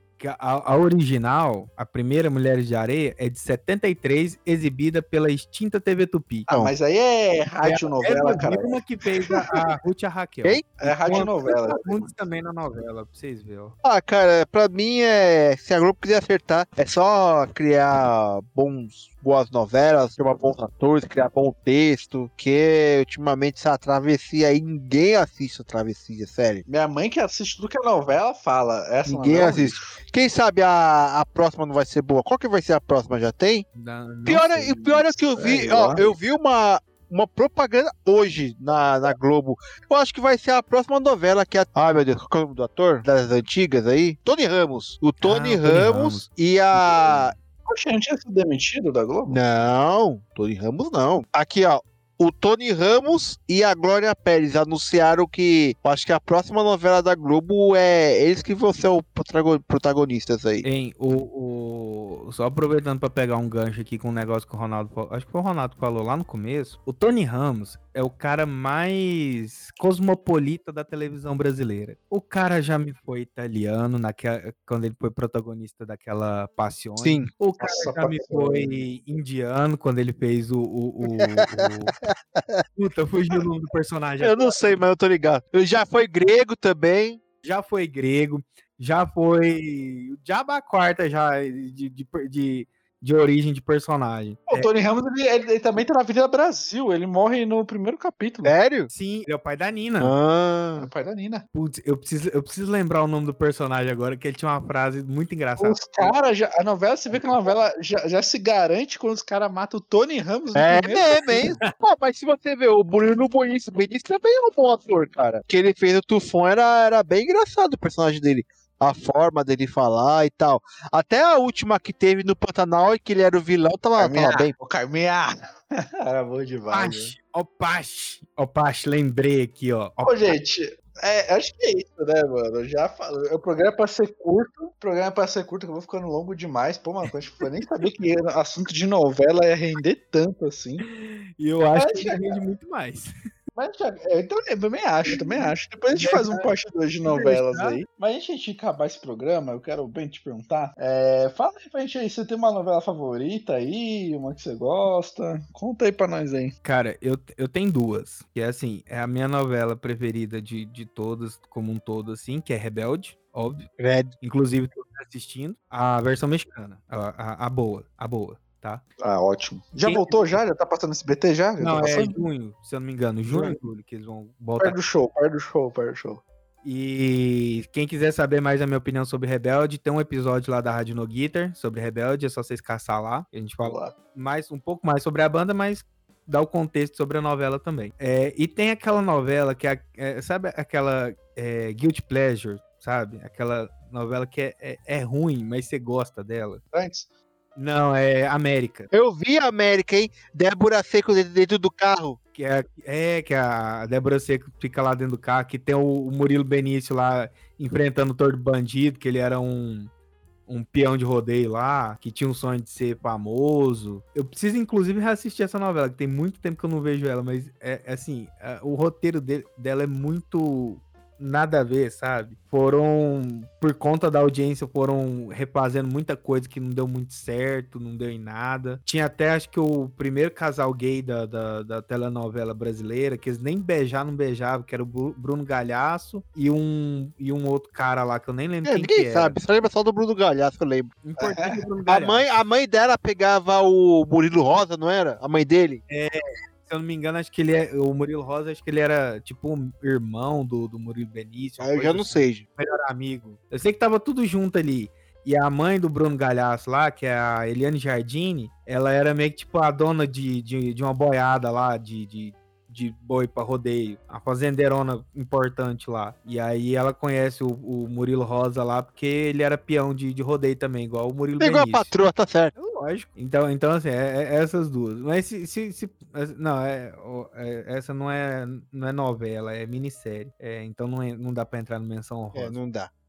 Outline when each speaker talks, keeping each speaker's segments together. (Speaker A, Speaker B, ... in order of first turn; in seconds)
Speaker A: 0.2-6.5, 7.6-13.8, 33.8-36.1, 45.2-47.4, 60.6-82.0, 82.8-84.6, 87.4-94.7, 98.9-100.1, 101.5-106.1, 111.2-111.7, 126.7-130.3, 140.8-143.1, 145.1-146.5, 147.1-147.8, 156.6-163.7, 164.2-168.8, 169.8-170.3, 171.6-174.8, 176.6-196.6, 197.6-198.9, 202.3-209.9, 210.5-239.4, 241.0-242.2, 245.9-271.9, 272.6-282.6
Speaker B: 6.5-9.6, 10.8-12.2, 26.7-30.0, 35.4-35.9, 47.7-49.4, 77.6-78.8, 94.5-98.5, 100.8-101.5, 105.6-111.4, 124.0-127.1, 130.0-140.9, 141.7-142.4, 143.6-156.6, 169.0-172.2, 174.6-176.2, 183.6-183.9, 196.7-197.1, 241.2-241.6
Speaker C: 10.4-10.8, 13.8-26.6, 29.1-33.7, 34.3-47.3, 49.3-60.7, 77.0-77.3, 81.2-82.7, 84.2-87.2, 98.5-98.9, 100.0-100.9, 110.5-124.5, 163.8-164.1, 173.3-173.6, 198.9-202.2, 238.7-240.9, 241.9-245.8, 251.6-252.4, 271.4-272.5, 282.3-282.9